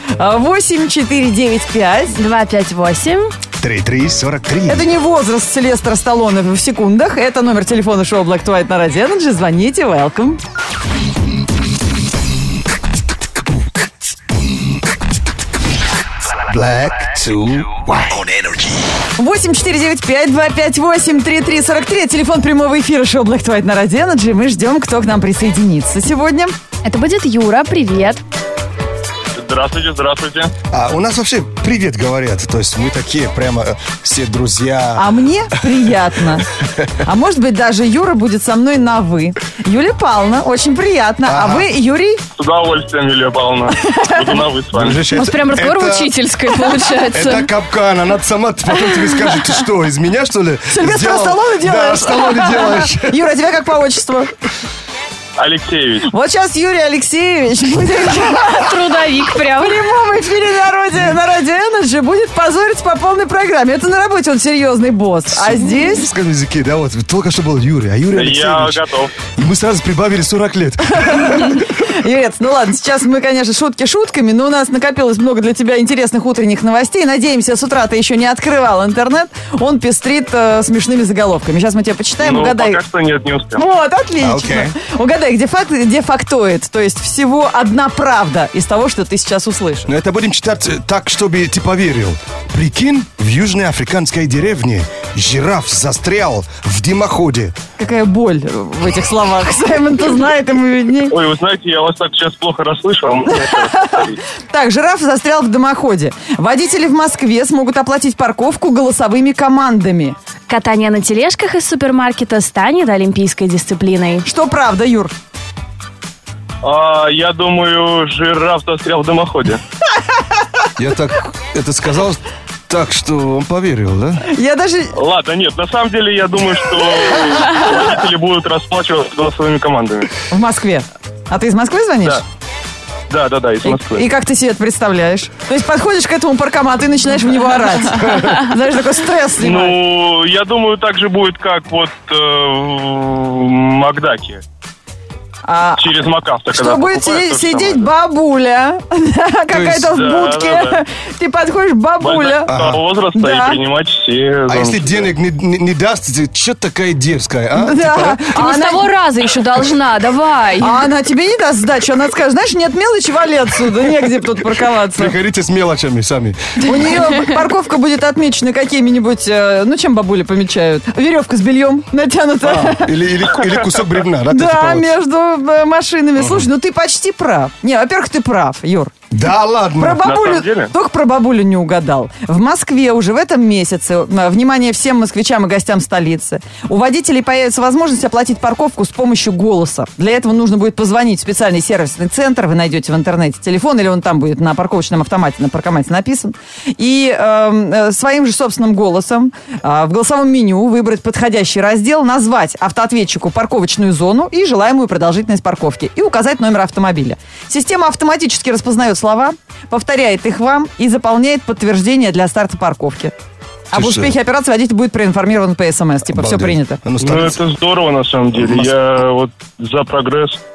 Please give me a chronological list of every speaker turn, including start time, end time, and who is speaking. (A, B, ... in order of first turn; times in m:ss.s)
0:00.2-0:02.2 A
0:02.2-0:03.3 B
0:03.6-0:04.9 C
0:04.6-0:10.4 A
0:16.3-0:18.6 C
0:19.2-0:26.5 A
0:26.8-0:28.2 B
0:29.4-0:30.5 D
0:30.7-0:35.6 C
0:35.0-0:36.5 A
0:36.6-0:37.0 C
0:37.0-0:42.2 A
0:41.2-0:41.7 C
0:42.4-0:45.1 D
0:43.9-0:44.4 A
0:44.7-0:46.1 C
0:45.1-0:47.5 B
0:46.9-0:53.2 C
0:50.7-0:54.3 A
0:55.4-0:56.1 D
0:56.0-1:06.0 A
0:58.5-0:59.8 B
1:05.3-1:08.8 C
1:08.1-1:09.2 D
1:09.3-1:11.6 C
1:11.0-1:22.8 A
1:22.2-1:23.6 D
1:23.5-1:29.9 A
1:24.2-1:24.8 C
1:29.9-1:37.5 C
1:37.8-1:41.2 A
1:41.1-1:44.2 D
1:43.3-1:50.2 A
1:50.5-1:54.2 B
1:54.2-1:55.1 A
1:56.6-1:59.6 D
2:00.8-2:04.2 C
2:04.3-2:04.9 A
2:04.9-2:10.1 D
2:10.3-2:12.2 A
2:13.1-2:14.0 D
2:13.6-2:19.8 A
2:19.4-2:24.4 D
2:25.4-2:25.9 A
2:25.8-2:27.9 D
2:26.5-2:32.5 A
2:29.5-2:29.9 C
2:29.9-2:30.8 D
2:32.0-2:35.1 D
2:32.5-2:32.8 C
2:33.1-2:33.6 A
2:34.5-2:38.3 C
2:37.6-2:38.9 A
2:38.3-2:40.8 B
2:40.6-2:45.2 A
2:44.9-2:46.8 C
2:46.6-2:52.9 A
2:52.4-2:54.9 C
2:54.3-2:58.9 A
2:59.1-3:00.1 C
2:59.8-3:33.1 A
3:00.0-3:00.7 D
3:33.7-3:36.8 A
3:33.7-3:34.1 C
3:36.0-3:37.4 C
3:37.0-3:40.4 D
3:38.3-3:38.7 C